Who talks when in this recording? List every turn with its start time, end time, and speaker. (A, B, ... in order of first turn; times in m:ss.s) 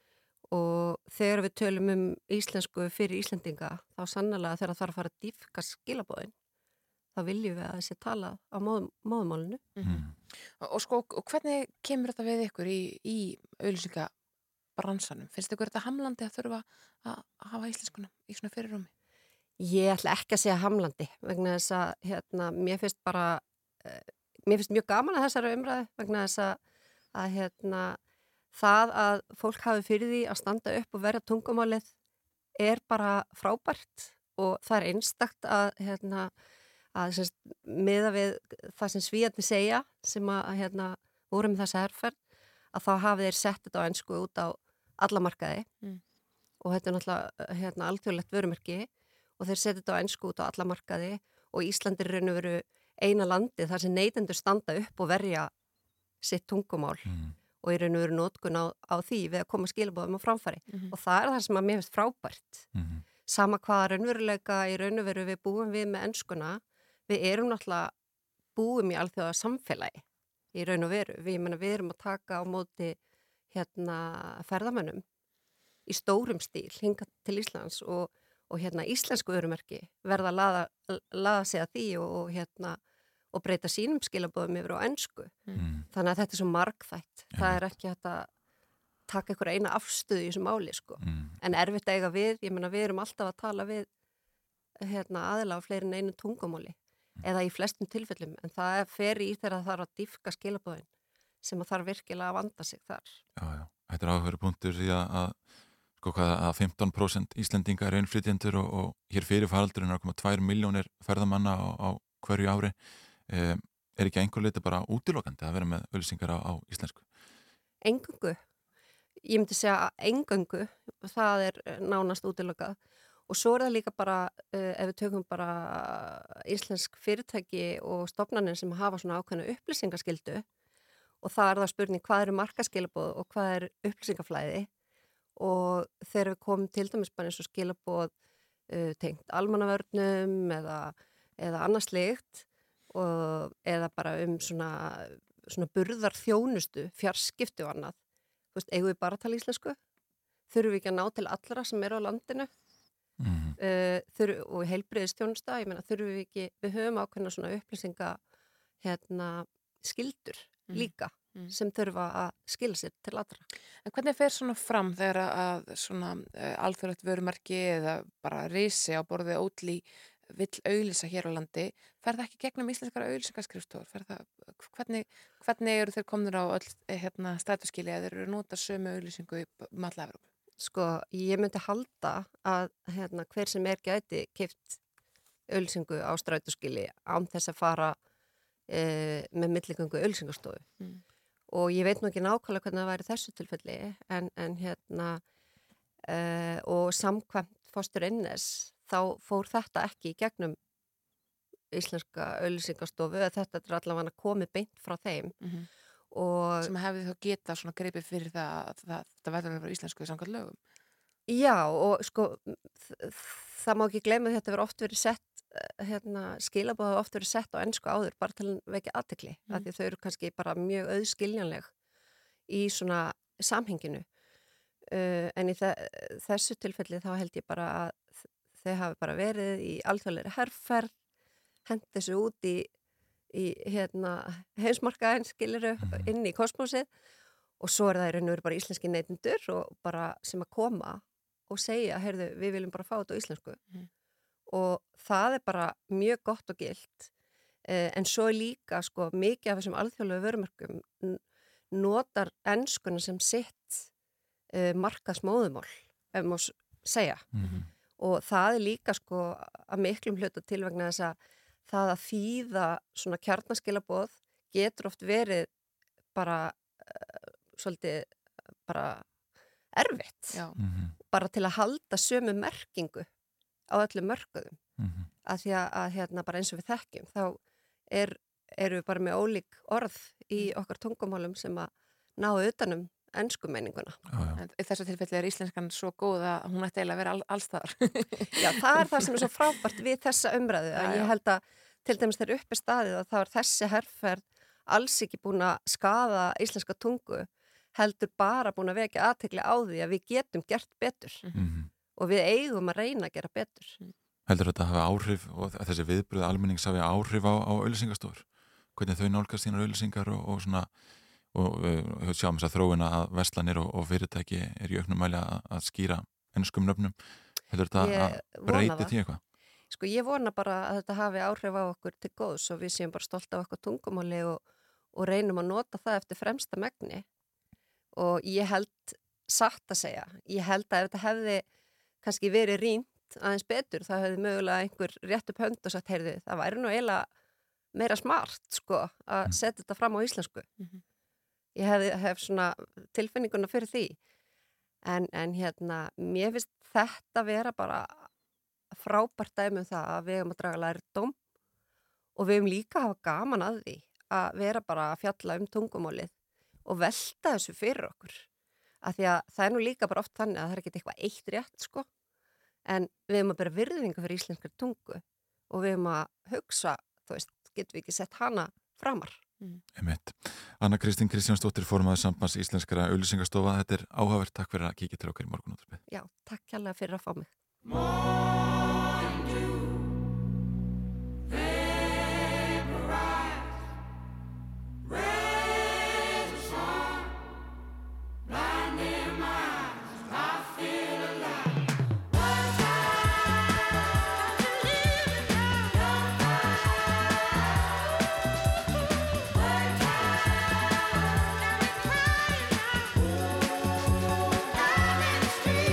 0:00.5-0:06.3 A
0:07.2-0:09.6 A
0:09.8-0:14.1 B
0:09.8-0:10.1 C
0:14.8-0:18.9 B
0:19.6-0:26.6 A
0:27.1-0:28.0 A
0:28.5-0:31.9 A
0:32.6-0:36.3 A
0:37.0-0:42.2 A
0:42.7-0:45.7 A
0:46.6-0:48.9 A
0:49.4-0:55.5 A
0:56.2-1:02.7 A
0:57.1-0:57.4 C
1:02.7-1:03.1 C
1:03.3-1:07.9 A
1:08.6-1:10.0 A
1:10.5-1:13.0 A
1:13.5-1:15.0 A
1:15.9-1:22.8 A
1:23.3-1:28.3 A
1:25.6-1:25.9 C
1:27.3-1:27.7 C
1:29.1-1:33.9 A
1:31.0-1:31.4 C
1:34.8-1:40.9 A
1:41.4-1:43.2 A
1:43.4-1:45.4 C
1:46.0-1:57.0 C
1:57.8-1:58.4 A
1:59.2-2:02.8 A
2:03.3-2:10.4 A
2:11.2-2:14.7 A
2:15.4-2:18.1 A
2:18.7-2:28.0 A
2:28.6-2:29.8 A
2:30.5-2:32.5 A
2:33.2-2:33.6 C
2:33.6-2:38.2 A
2:38.8-2:43.4 A
2:40.7-2:41.5 B
2:43.9-3:00.2 B
3:00.6-3:04.8 A
3:05.5-3:08.0 A
3:08.7-3:10.7 A
3:11.5-3:15.2 A
3:16.1-3:20.6 A
3:21.7-3:25.4 A
3:25.4-3:25.7 B
3:26.1-3:26.7 A
3:26.6-3:30.6 B
3:31.3-3:41.7 A
3:42.5-3:44.0 A
3:44.9-3:50.9 A
3:51.7-3:52.7 A
3:53.3-3:56.9 A
3:55.8-3:56.1 C
3:57.6-4:03.6 A
4:04.5-4:07.1 A
4:07.7-4:11.2 A
4:11.7-4:13.9 A
4:14.5-4:17.3 A
4:17.3-4:17.7 C
4:18.0-4:21.2 A
4:21.7-4:25.5 A
4:26.2-4:28.1 A
4:28.7-4:29.1 A
4:29.8-4:30.4 A
4:30.3-4:30.6 B
4:30.6-4:31.0 C
4:31.1-4:33.1 A
4:33.7-4:34.6 A
4:34.8-4:35.1 C
4:35.3-4:37.4 A
4:37.9-4:44.0 A
4:44.1-4:44.4 C
4:44.4-4:49.3 B
4:48.4-5:01.2 A
4:50.7-4:51.1 B
5:01.4-5:01.7 C
5:02.0-5:03.8 A
5:04.3-5:10.7 C
5:11.3-5:17.0 C
5:17.5-5:19.2 C
5:17.8-5:19.0 A
5:19.7-5:24.4 A
5:24.9-5:27.1 A
5:28.0-5:31.4 A
5:32.0-5:37.1 A
5:37.7-5:40.5 A
5:41.6-5:44.0 A
5:44.9-5:48.1 A
5:48.7-5:51.2 A
5:52.2-5:56.1 A
5:56.6-5:58.3 A
5:58.8-6:01.9 A
6:02.7-6:09.2 A
6:09.8-6:15.8 C
6:15.9-6:17.3 A